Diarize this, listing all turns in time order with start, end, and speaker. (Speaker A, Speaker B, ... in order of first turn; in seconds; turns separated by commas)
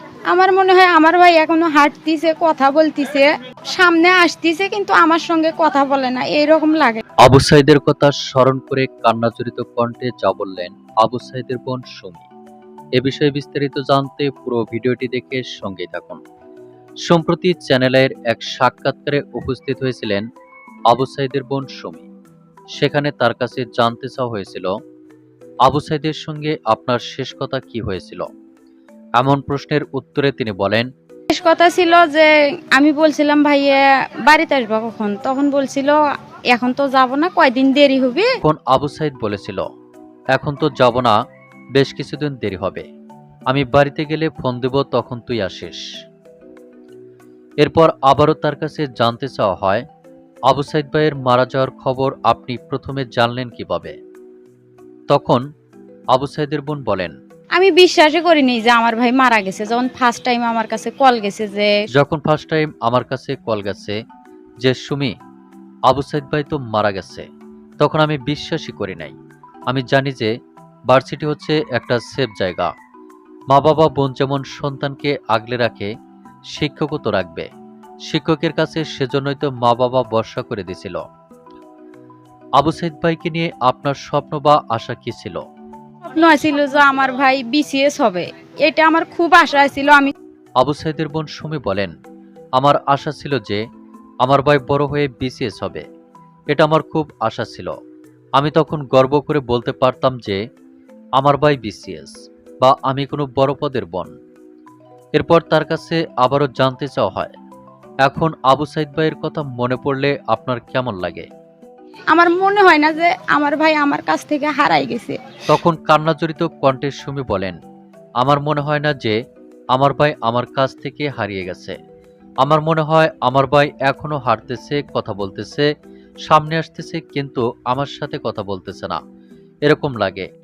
Speaker A: 0.3-7.0, Speaker B: 7.2-12.3, Speaker B: 12.9-16.2, Speaker B: 17.1-20.2, Speaker B: 20.9-22.1, Speaker B: 22.8-24.7, Speaker B: 25.6-28.3, Speaker B: 29.2-30.9, Speaker A: 31.3-36.0, Speaker A: 36.5-38.3, Speaker B: 38.4-39.6, Speaker B: 40.3-41.1, Speaker B: 41.8-42.8, Speaker B: 43.5-45.8, Speaker B: 47.6-49.8, Speaker B: 50.5-54.0, Speaker B: 55.1-55.4, Speaker B: 56.1-57.1, Speaker A: 57.6-61.7, Speaker B: 61.9-64.0, Speaker B: 64.6-65.1, Speaker B: 65.9-67.2, Speaker B: 67.8-69.2, Speaker B: 69.7-70.3, Speaker B: 70.9-72.7, Speaker B: 73.5-75.9, Speaker B: 76.5-77.5, Speaker B: 78.1-81.0, Speaker B: 82.6-85.4, Speaker A: 86.1-90.1, Speaker B: 90.6-91.9, Speaker B: 92.5-93.6, Speaker B: 94.2-95.8, Speaker B: 96.5-97.7, Speaker B: 98.4-100.4, Speaker B: 101.2-104.1, Speaker B: 105.1-107.3, Speaker B: 108.0-111.3, Speaker A: 112.1-115.2, Speaker B: 115.5-117.6, Speaker B: 118.2-119.2, Speaker B: 119.7-121.8, Speaker B: 122.4-125.7, Speaker B: 126.3-129.0, Speaker B: 129.7-130.3